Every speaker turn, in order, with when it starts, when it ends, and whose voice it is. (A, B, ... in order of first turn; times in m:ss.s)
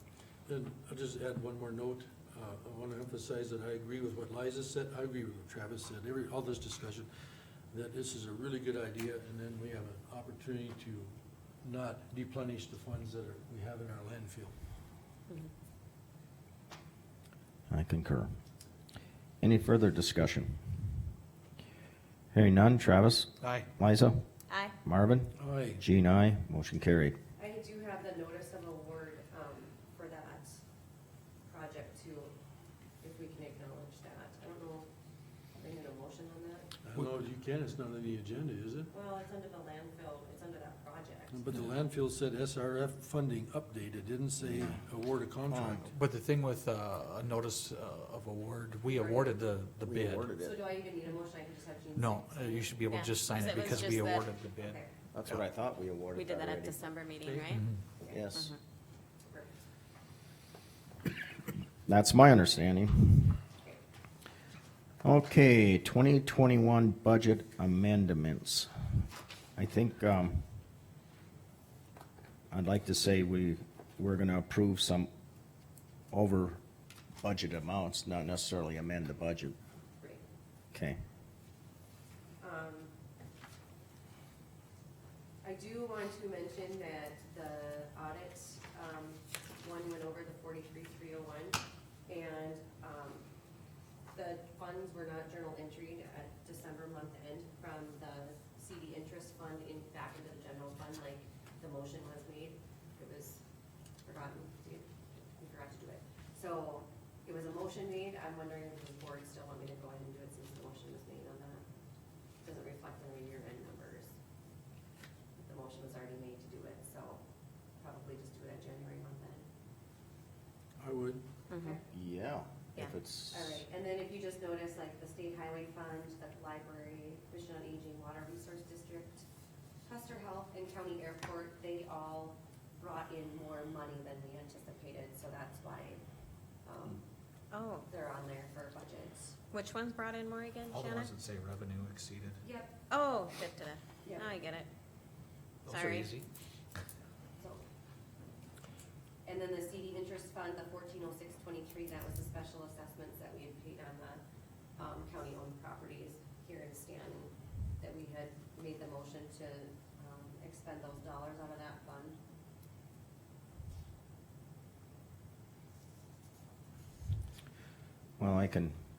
0:00.4-0:07.1 A
0:07.7-0:14.5 A
0:17.7-0:18.3 B
0:19.4-0:20.6 B
0:22.3-0:24.2 B
0:23.4-0:23.7 C
0:24.5-0:24.7 D
0:24.8-0:27.2 B
0:25.4-0:25.8 A
0:27.4-0:30.6 E
0:31.5-0:32.3 E
0:33.0-0:34.9 E
0:35.5-0:36.7 E
0:36.8-0:38.9 A
0:38.9-0:41.5 E
0:41.3-0:45.9 A
0:45.5-0:45.9 B
0:45.9-0:50.2 C
0:48.8-0:49.4 E
0:49.8-0:50.6 B
0:50.4-0:52.8 E
0:51.9-0:55.4 C
0:52.9-0:54.3 D
0:54.6-0:54.9 E
0:55.1-0:56.8 B
0:56.1-0:57.6 D
0:57.5-0:57.8 C
0:58.0-0:58.2 E
0:58.1-0:58.5 B
0:58.3-0:58.6 D
0:59.2-0:59.7 E
1:01.8-1:03.4 B
1:05.0-1:08.7 B
1:09.6-1:10.4 B
1:12.5-1:15.1 B
1:16.1-1:16.6 B
1:17.2-1:19.5 B
1:20.0-1:20.2 E
1:20.7-1:21.0 B
1:22.4-1:22.9 E
1:25.4-1:33.2 E
1:34.1-1:43.4 E
1:44.0-1:51.6 E
1:52.4-1:54.1 E
1:55.4-1:57.2 E
1:57.8-1:59.4 E
2:00.8-2:01.2 A
2:01.5-2:01.8 D
2:01.6-2:01.8 E
2:01.9-2:03.6 B
2:02.8-2:09.2 E
2:09.8-2:16.0 E
2:16.6-2:17.0 E
2:17.5-2:17.9 D
2:17.9-2:19.4 E
2:19.5-2:21.1 D
2:20.7-2:22.4 C
2:22.4-2:22.8 E
2:22.9-2:24.7 D
2:24.0-2:24.4 E
2:25.6-2:26.3 C
2:25.7-2:26.1 D
2:29.2-2:34.2 E
2:34.8-2:42.2 E
2:48.2-2:48.7 B